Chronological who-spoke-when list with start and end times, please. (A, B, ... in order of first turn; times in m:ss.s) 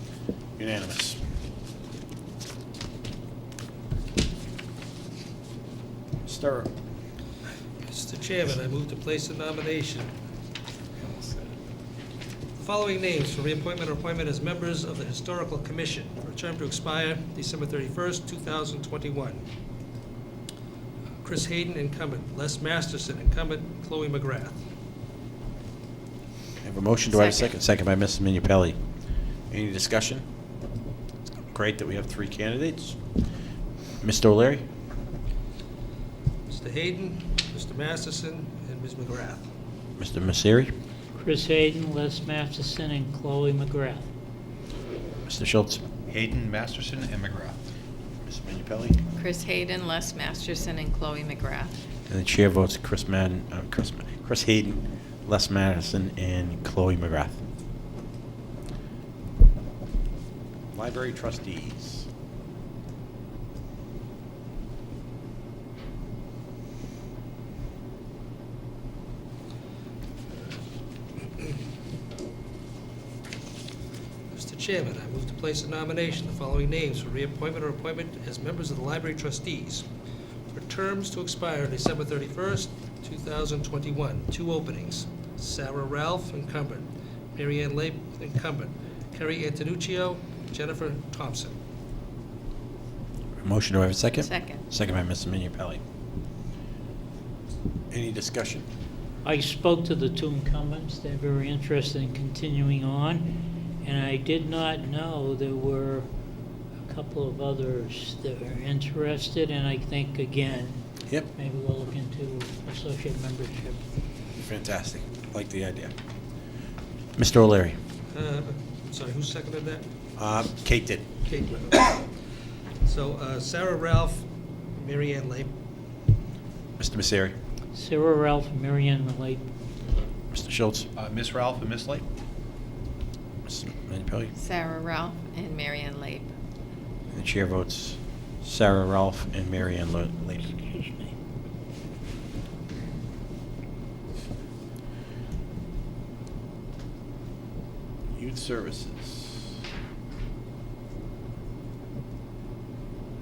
0:00.6-0:01.2 A
0:06.2-0:06.7 A
0:07.9-0:10.1 B
0:11.0-0:11.4 A
0:12.6-0:19.4 B
0:21.2-0:24.6 B
0:26.6-0:28.8 A
0:27.1-0:27.5 C
0:29.5-0:30.2 A
0:31.5-0:33.0 A
0:34.0-0:34.6 A
0:36.5-0:39.4 B
0:40.0-0:40.7 A
0:41.2-0:44.1 D
0:45.2-0:45.8 A
0:46.1-0:47.6 E
0:48.2-0:49.0 A
0:49.1-0:51.7 C
0:52.1-0:57.4 A
1:00.7-1:02.1 A
1:14.3-1:19.8 B
1:20.5-1:31.5 B
1:33.4-1:35.8 A
1:34.2-1:34.6 C
1:37.9-1:38.6 A
1:39.2-1:46.1 D
1:46.9-1:50.8 D
1:51.3-1:53.8 D
1:54.4-1:55.9 A
1:57.2-1:57.8 A
1:58.1-1:59.8 B
2:00.2-2:01.0 A
2:01.2-2:02.1 B
2:02.8-2:05.5 B
2:06.8-2:07.3 A
2:07.7-2:09.5 D
2:10.3-2:10.9 A
2:11.0-2:12.0 E
2:13.5-2:14.3 A
2:14.4-2:16.3 C
2:17.1-2:20.6 A
2:20.7-2:21.1 D
2:28.2-2:29.5 A